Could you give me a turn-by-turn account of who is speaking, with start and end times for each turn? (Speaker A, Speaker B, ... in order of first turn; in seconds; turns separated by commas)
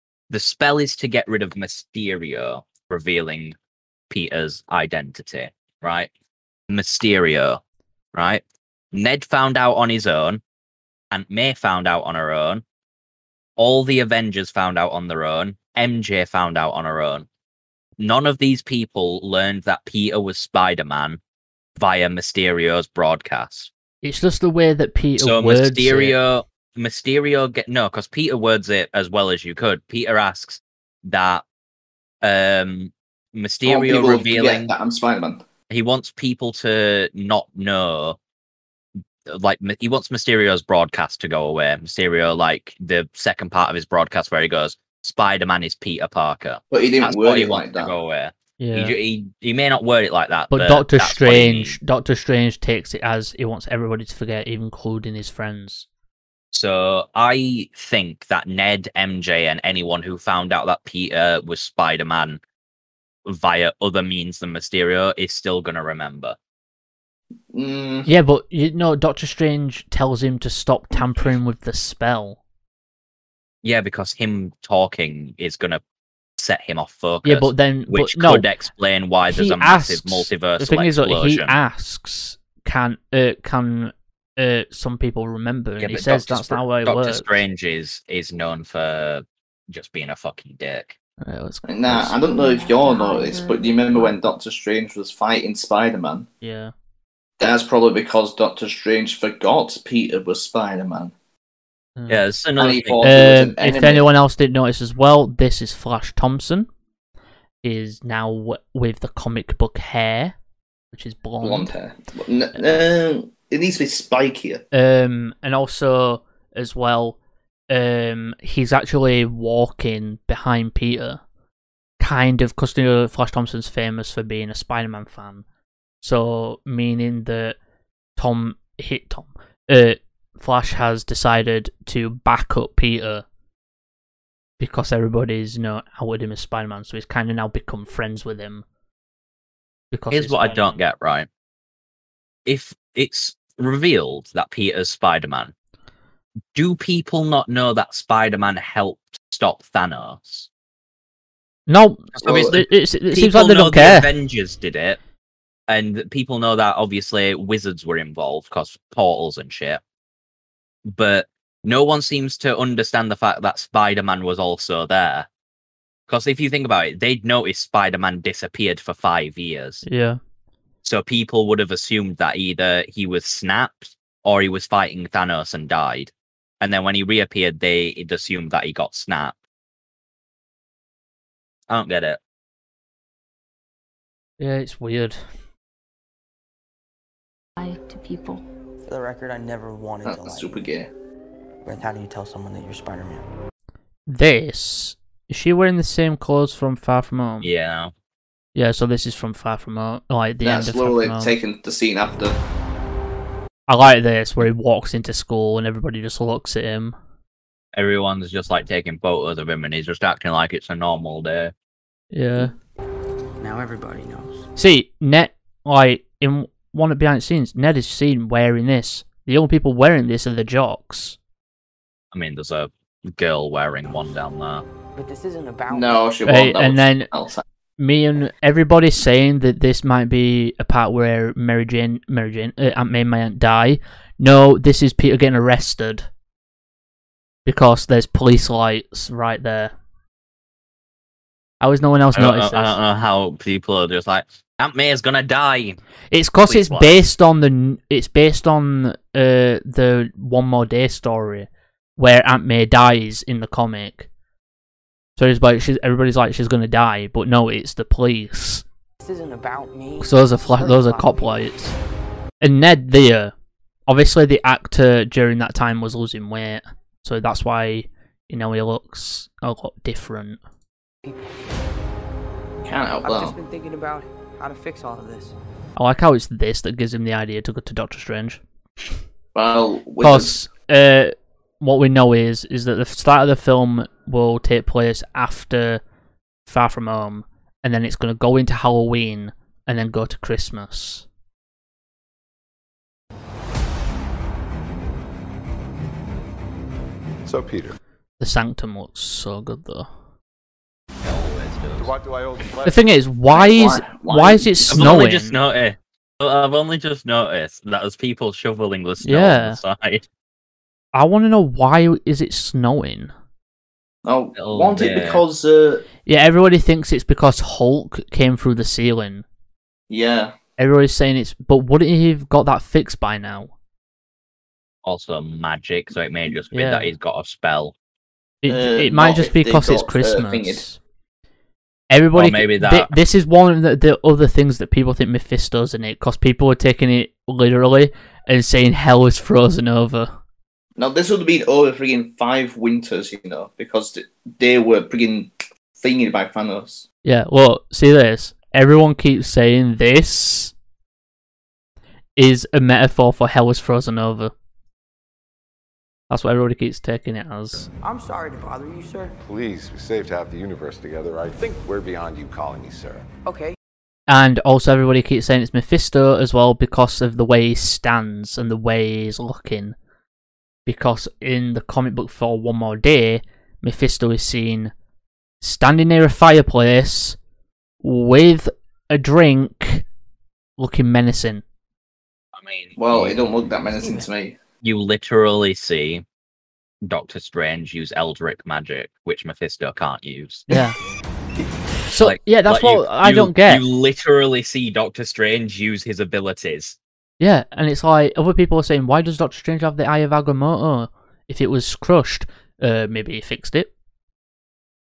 Speaker A: 0.3-3.6, Speaker A: 4.1-6.1, Speaker A: 6.7-7.6, Speaker A: 8.1-10.4, Speaker A: 11.1-12.6, Speaker A: 13.6-17.3, Speaker A: 18.0-21.2, Speaker A: 21.8-23.7, Speaker B: 24.0-26.2, Speaker A: 25.2-31.4, Speaker A: 32.2-34.7, Speaker C: 33.7-35.4, Speaker A: 35.7-38.2, Speaker A: 39.3-51.8, Speaker C: 46.7-47.9, Speaker B: 48.6-48.9, Speaker B: 50.5-55.9, Speaker A: 56.5-62.4, Speaker A: 63.2-66.4, Speaker C: 67.5-68.1, Speaker B: 68.1-72.4, Speaker A: 73.6-75.8, Speaker A: 76.4-81.6, Speaker B: 77.2-78.5, Speaker B: 79.3-87.3, Speaker A: 85.8-91.0, Speaker B: 91.2-92.2, Speaker C: 91.7-96.3, Speaker D: 92.2-94.2, Speaker B: 96.4-96.7, Speaker C: 97.4-101.1, Speaker B: 102.0-102.2, Speaker A: 102.1-103.0, Speaker C: 102.6-104.1, Speaker B: 103.0-106.7, Speaker B: 107.6-110.3, Speaker B: 110.9-111.7, Speaker C: 111.4-114.6, Speaker B: 114.7-117.2, Speaker B: 117.7-121.2, Speaker B: 122.0-125.4, Speaker B: 126.0-127.6, Speaker B: 128.2-133.2, Speaker B: 134.6-138.7, Speaker B: 139.9-140.8, Speaker A: 140.1-141.3, Speaker A: 142.5-145.5, Speaker A: 146.5-150.5, Speaker B: 151.7-154.1, Speaker A: 152.2-155.0, Speaker C: 152.2-152.6, Speaker A: 155.7-159.8, Speaker A: 160.9-165.3, Speaker A: 166.1-169.8, Speaker B: 169.8-170.2, Speaker A: 170.8-179.4, Speaker A: 181.7-182.2, Speaker B: 184.4-185.2, Speaker D: 187.6-188.4, Speaker E: 188.8-190.6, Speaker C: 190.0-190.9, Speaker E: 191.6-193.3, Speaker B: 194.1-197.5, Speaker A: 197.4-197.9, Speaker B: 198.6-201.3, Speaker C: 200.4-202.4, Speaker B: 203.7-207.0, Speaker A: 207.7-211.5, Speaker B: 212.1-212.5, Speaker E: 213.4-214.5, Speaker B: 214.6-221.2, Speaker A: 222.1-224.7, Speaker E: 225.0-226.1, Speaker C: 225.7-227.4, Speaker B: 226.3-227.1, Speaker B: 227.8-236.1, Speaker B: 237.5-239.7, Speaker B: 241.6-242.8, Speaker A: 242.1-245.8, Speaker B: 246.1-254.1, Speaker A: 246.5-247.0, Speaker B: 255.2-258.6, Speaker E: 259.0-261.4, Speaker B: 260.0-261.8, Speaker B: 262.4-263.3, Speaker B: 263.9-270.4, Speaker E: 271.0-271.4, Speaker C: 272.6-273.4, Speaker E: 273.0-275.4, Speaker B: 275.8-278.4, Speaker C: 279.4-280.4, Speaker B: 280.0-285.8, Speaker B: 286.5-291.1, Speaker F: 297.2-297.8, Speaker B: 298.2-299.9, Speaker A: 301.0-301.9, Speaker F: 301.8-302.9, Speaker B: 302.7-305.4, Speaker C: 303.3-304.9, Speaker A: 304.7-310.1, Speaker B: 309.0-309.6, Speaker B: 310.9-313.1, Speaker C: 314.1-315.9, Speaker A: 314.4-315.2, Speaker B: 316.1-319.2, Speaker C: 319.9-320.4, Speaker B: 320.6-323.5, Speaker A: 324.8-327.7, Speaker B: 326.5-326.9, Speaker B: 328.4-330.8, Speaker C: 328.5-330.6, Speaker B: 331.9-340.1, Speaker A: 332.1-332.9, Speaker C: 340.8-346.8, Speaker B: 347.1-350.5, Speaker B: 352.2-354.3, Speaker B: 356.1-357.7, Speaker E: 357.8-359.2, Speaker F: 359.2-363.1, Speaker E: 363.3-363.6, Speaker B: 364.1-369.8, Speaker B: 370.7-374.7, Speaker B: 375.4-377.2, Speaker B: 377.8-379.9, Speaker B: 380.6-381.4, Speaker A: 382.4-383.2, Speaker C: 382.8-384.4, Speaker A: 384.6-386.0, Speaker A: 386.9-390.5, Speaker B: 390.5-390.8, Speaker B: 391.9-393.6, Speaker A: 392.0-396.8, Speaker B: 397.2-403.7